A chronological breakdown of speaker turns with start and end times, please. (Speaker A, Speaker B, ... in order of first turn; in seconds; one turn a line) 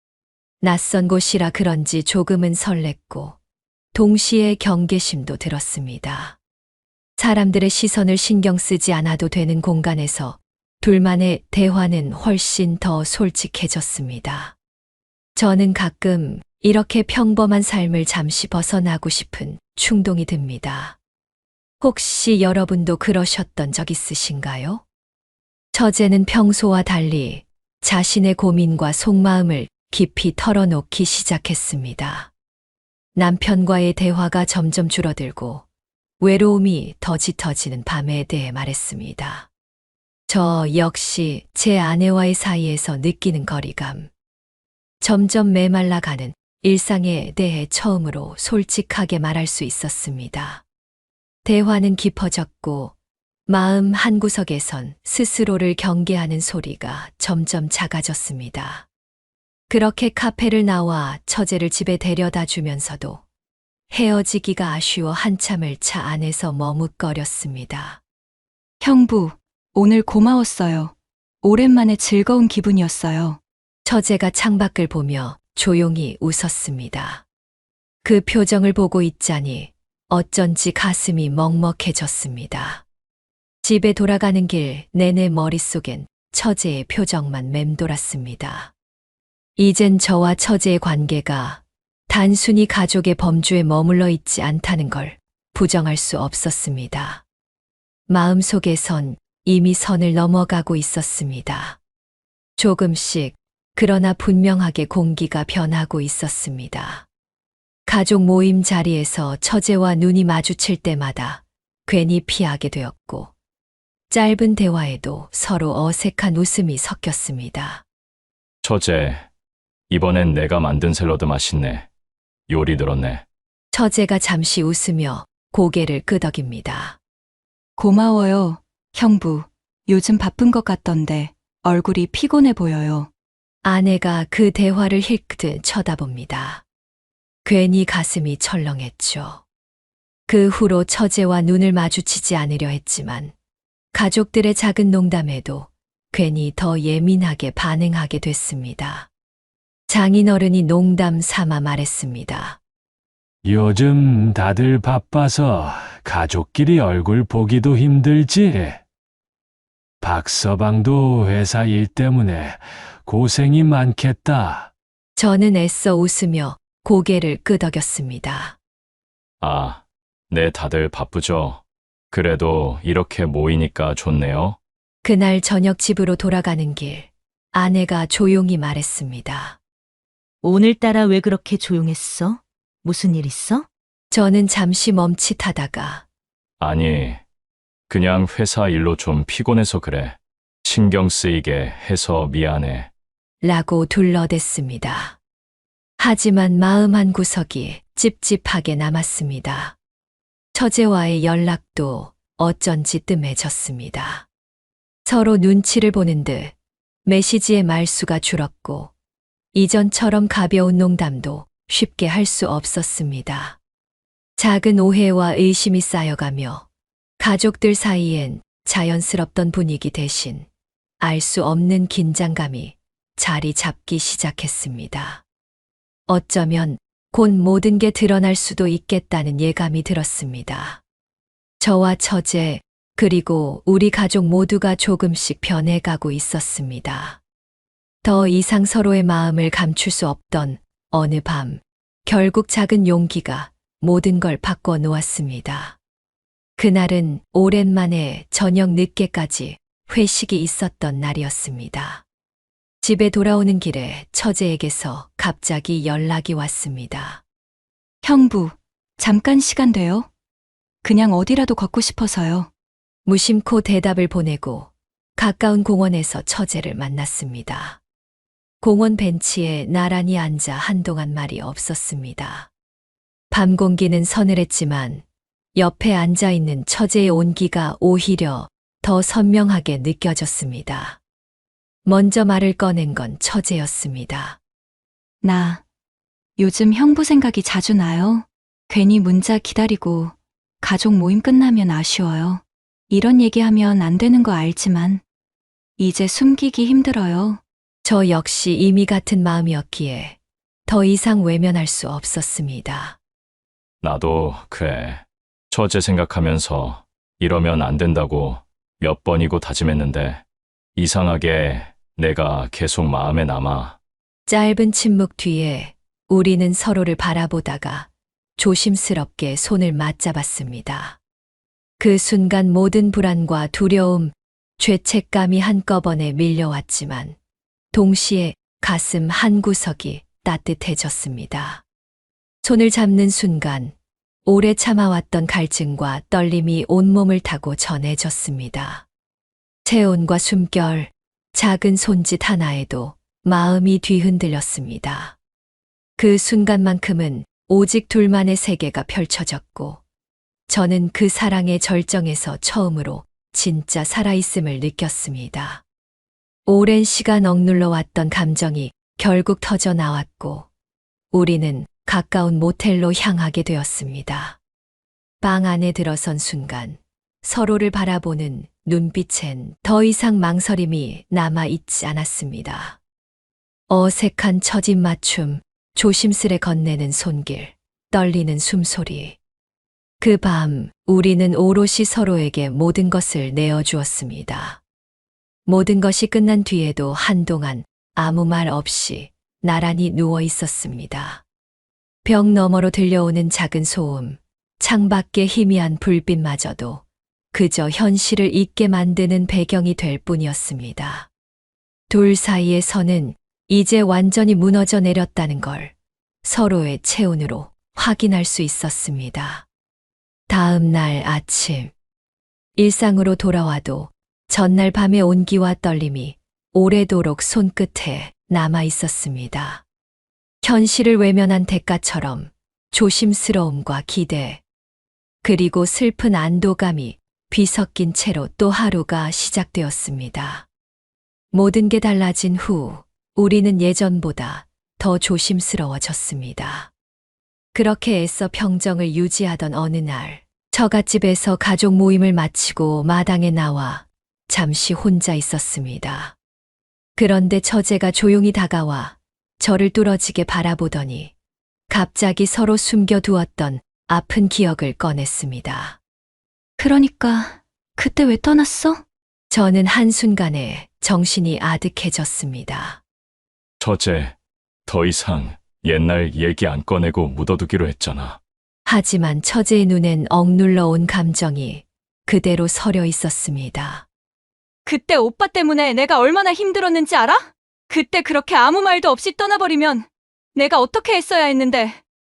Speaker A: 0.6-3.4
Speaker A: 3.9-6.4
Speaker A: 7.2-14.5
Speaker A: 15.3-21.0
Speaker A: 21.8-24.8
Speaker A: 25.7-32.3
Speaker A: 33.1-35.6
Speaker A: 36.2-39.5
Speaker A: 40.3-44.1
Speaker A: 45.0-50.6
Speaker A: 51.4-52.9
Speaker A: 53.5-58.9
Speaker A: 59.7-63.2
Speaker A: 63.9-68.0
Speaker B: 68.8-73.4
Speaker A: 73.8-77.2
Speaker A: 78.0-82.8
Speaker A: 83.6-88.7
Speaker A: 89.6-97.2
Speaker A: 98.1-101.8
Speaker A: 102.6-107.0
Speaker A: 107.8-113.3
Speaker A: 114.1-117.8
Speaker C: 118.6-119.2
Speaker C: 119.9-121.9
Speaker C: 122.5-123.2
Speaker A: 123.7-127.0
Speaker B: 127.8-133.1
Speaker A: 133.6-136.6
Speaker A: 137.4-139.4
Speaker A: 140.3-143.3
Speaker A: 143.9-149.1
Speaker A: 149.9-152.6
Speaker D: 153.4-158.8
Speaker D: 160.0-164.7
Speaker A: 165.2-168.6
Speaker C: 169.4-171.6
Speaker C: 172.1-174.6
Speaker A: 175.0-179.6
Speaker E: 180.4-183.7
Speaker A: 184.1-186.0
Speaker C: 186.6-187.2
Speaker C: 187.9-192.9
Speaker A: 193.4-195.2
Speaker A: 196.0-199.8
Speaker A: 200.5-204.2
Speaker A: 205.0-208.9
Speaker A: 209.5-213.6
Speaker A: 214.4-216.6
Speaker A: 217.2-220.5
Speaker A: 221.0-225.2
Speaker A: 226.1-230.8
Speaker A: 231.6-237.2
Speaker A: 238.0-245.8
Speaker A: 246.6-252.0
Speaker A: 252.8-257.2
Speaker B: 258.0-260.1
Speaker B: 260.8-262.5
Speaker A: 263.1-267.8
Speaker A: 268.6-272.5
Speaker A: 273.3-275.0
Speaker A: 275.5-281.0
Speaker A: 281.8-284.4
Speaker B: 285.2-285.6
Speaker B: 286.4-295.0
Speaker B: 295.8-297.4
Speaker A: 297.8-303.0
Speaker C: 303.8-310.2
Speaker C: 310.8-313.8
Speaker A: 314.3-321.0
Speaker A: 321.8-327.2
Speaker A: 327.7-331.6
Speaker A: 332.4-333.7
Speaker A: 334.2-338.8
Speaker A: 339.6-345.1
Speaker A: 346.0-349.8
Speaker A: 350.5-355.6
Speaker A: 356.4-360.5
Speaker A: 361.1-364.4
Speaker A: 365.2-372.8
Speaker A: 373.7-379.2
Speaker A: 380.0-384.6
Speaker A: 385.4-391.2
Speaker A: 392.0-401.1
Speaker A: 401.9-405.7
Speaker A: 406.2-409.4
Speaker A: 410.3-411.7
Speaker A: 412.6-419.6
Speaker A: 420.4-424.4
Speaker A: 425.2-430.4
Speaker A: 431.3-436.7
Speaker A: 437.5-446.1
Speaker A: 447.0-451.1
Speaker A: 451.7-455.8
Speaker B: 456.6-458.8
Speaker A: 459.3-462.8
Speaker C: 463.6-464.1
Speaker C: 464.6-468.2
Speaker A: 468.6-473.8
Speaker B: 474.6-481.8